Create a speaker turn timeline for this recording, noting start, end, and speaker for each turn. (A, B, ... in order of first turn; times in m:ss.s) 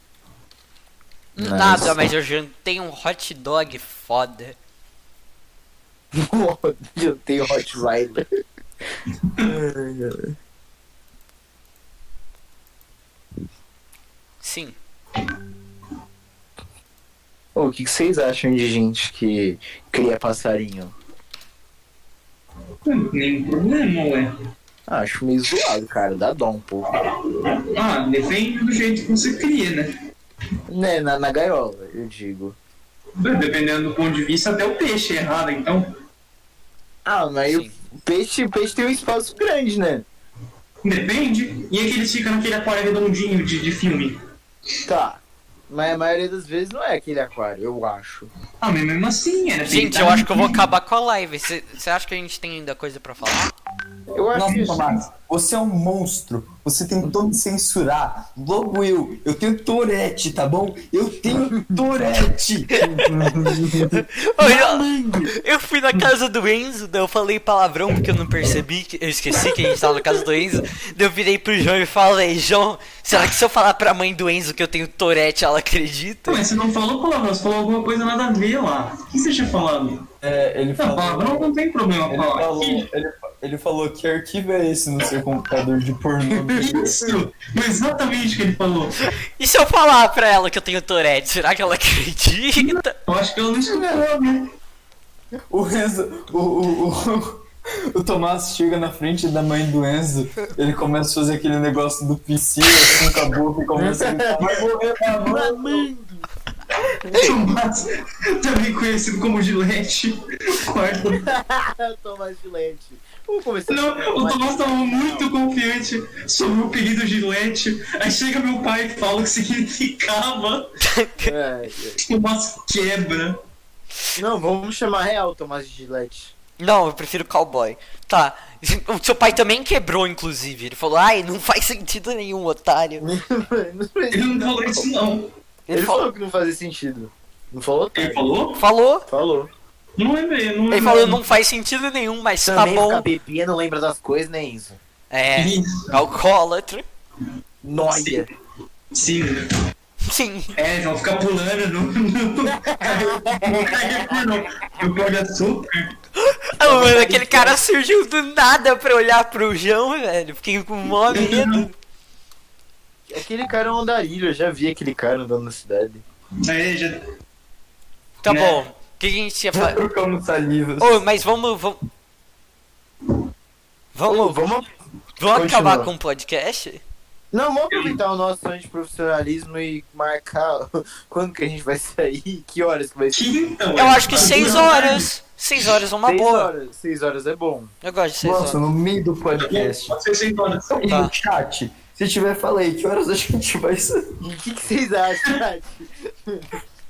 0:01.4-0:04.6 A
0:01.4-0:02.1 B
0:06.1-0:08.2 B
0:09.4-0:10.3 B
0:14.4-0:14.8 A
0:17.6-0:20.9 B
0:22.9-0:24.3 C
0:24.9-0:26.9 B
0:27.1-0:29.9 C
0:30.7-0:32.6 B
0:33.2-0:35.9 C
0:37.0-0:40.1 B
0:37.4-0:37.8 A
0:40.8-0:44.2 C
0:44.9-0:48.3 B
0:48.6-0:50.6 C
0:49.7-0:53.5 A
0:54.1-0:54.9 B
0:54.3-1:04.1 D
1:02.8-1:03.1 A
1:03.8-1:16.4 A
1:04.4-1:05.3 B
1:16.3-1:20.1 C
1:20.2-1:21.5 D
1:20.8-1:22.9 C
1:22.1-1:27.0 D
1:26.3-1:27.2 B
1:26.6-1:29.0 C
1:29.4-1:33.0 A
1:32.8-1:34.0 C
1:33.7-1:34.4 D
1:35.5-1:45.8 D
1:43.8-1:46.3 B
1:46.8-1:47.3 B
1:47.1-1:51.2 C
1:51.1-1:55.3 B
1:53.7-2:00.7 C
2:00.8-2:01.3 A
2:01.2-2:02.0 B
2:02.0-2:03.4 C
2:04.2-2:06.4 B
2:06.6-2:13.1 A
2:13.0-2:14.9 B
2:14.1-2:15.3 C
2:15.7-2:16.1 A
2:15.7-2:18.4 B
2:18.0-2:18.6 C
2:18.6-2:19.1 A
2:19.1-2:19.5 B
2:20.0-2:21.2 C
2:20.7-2:23.1 A
2:22.4-2:24.8 B
2:25.1-2:26.8 A
2:25.4-2:26.0 C
2:27.6-2:28.3 B
2:28.9-2:29.4 C
2:30.0-2:30.5 A
2:30.6-2:35.9 C
2:32.5-2:34.2 B
2:36.1-2:41.7 A
2:36.6-2:37.6 B
2:41.1-2:41.6 C
2:43.1-2:46.0 B
2:46.4-2:47.0 C
2:48.2-2:49.8 A
2:48.3-2:48.6 B
2:49.5-2:51.0 D
2:50.8-2:51.8 A
2:54.0-2:54.4 A
2:54.1-2:54.7 B
2:55.2-2:56.8 A
2:55.3-2:55.9 B
2:57.3-3:03.3 B
2:57.7-2:58.0 C
3:03.1-3:05.1 C
3:03.8-3:06.5 A
3:04.3-3:04.6 B
3:06.0-3:07.8 B
3:07.8-3:08.6 A
3:08.2-3:10.0 D
3:09.4-3:10.8 C
3:10.7-3:14.1 D
3:10.9-3:11.1 A
3:14.2-3:16.5 B